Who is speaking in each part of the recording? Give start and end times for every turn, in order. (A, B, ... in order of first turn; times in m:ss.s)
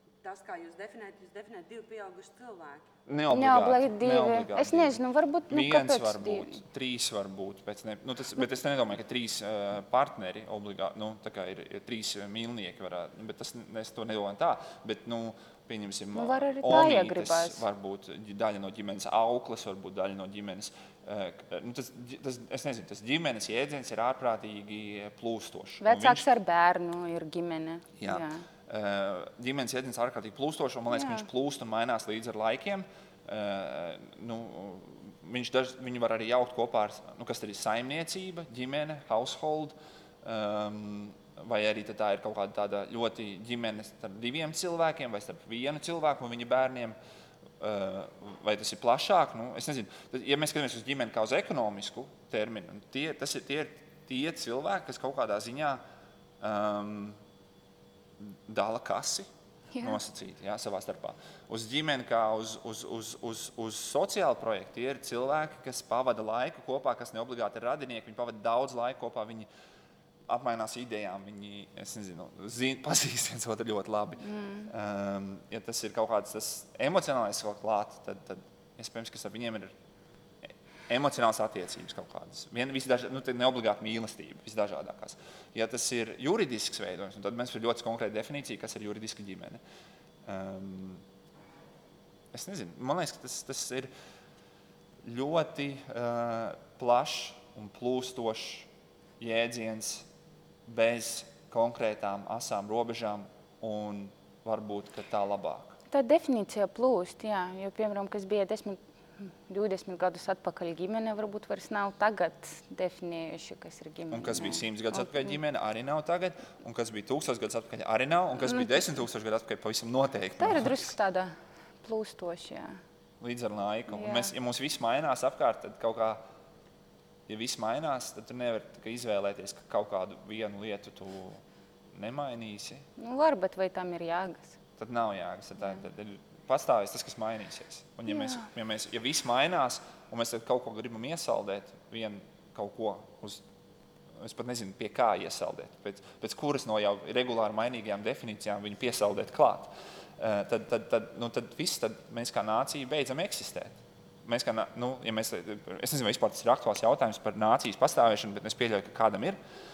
0:00.2-0:02.9 A
0:03.1-0:26.3 B
0:03.3-0:06.6 C
0:16.2-0:17.6 C
0:25.8-0:28.5 C
0:28.0-0:47.0 B
0:30.9-0:31.3 C
0:47.6-0:55.8 B
0:56.4-0:57.2 B
0:58.2-0:59.3 B
0:59.8-1:09.5 B
1:10.3-1:19.7 B
1:14.3-1:14.7 C
1:20.9-1:29.6 B
1:30.3-1:31.0 B
1:32.3-1:33.9 B
1:35.0-1:40.1 B
1:40.7-1:45.8 B
1:45.9-1:55.3 C
1:54.1-2:00.9 B
2:00.4-2:02.8 C
2:03.2-2:06.2 B
2:03.9-2:04.3 C
2:07.3-2:12.9 B
2:13.0-2:14.6 C
2:14.8-2:23.4 B
2:24.2-2:39.4 B